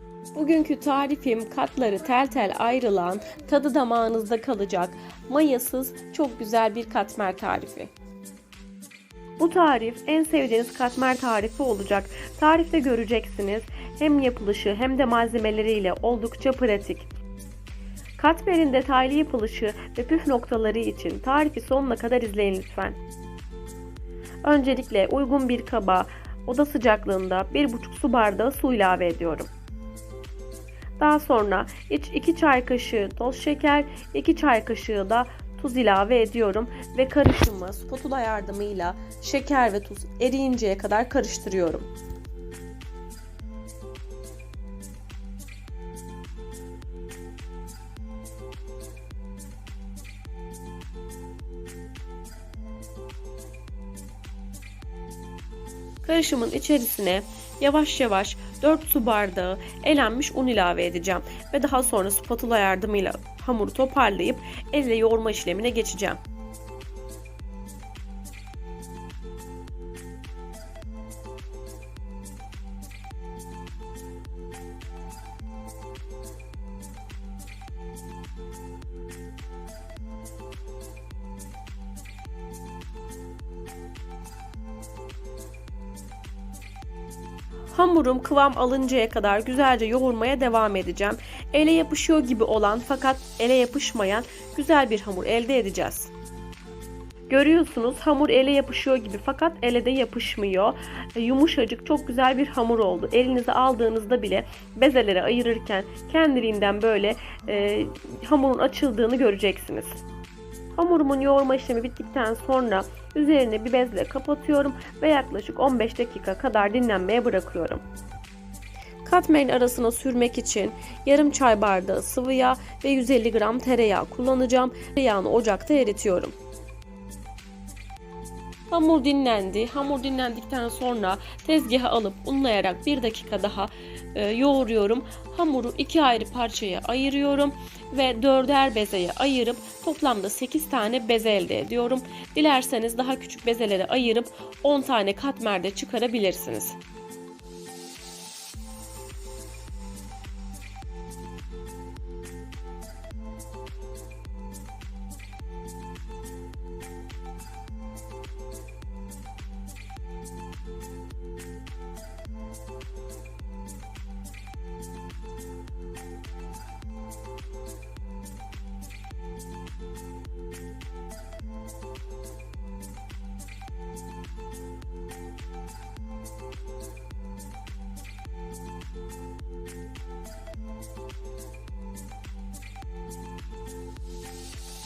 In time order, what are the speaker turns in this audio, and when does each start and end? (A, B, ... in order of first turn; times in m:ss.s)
0:00.3-0:07.9 A
0:09.4-0:17.1 A
0:18.2-0:23.0 A
0:24.4-0:29.5 A
0:31.0-0:41.9 A
0:56.0-1:06.2 A
1:27.7-1:36.1 A
1:37.3-1:50.0 A
1:50.8-1:57.8 A
1:59.0-2:06.4 A
2:08.7-2:26.8 A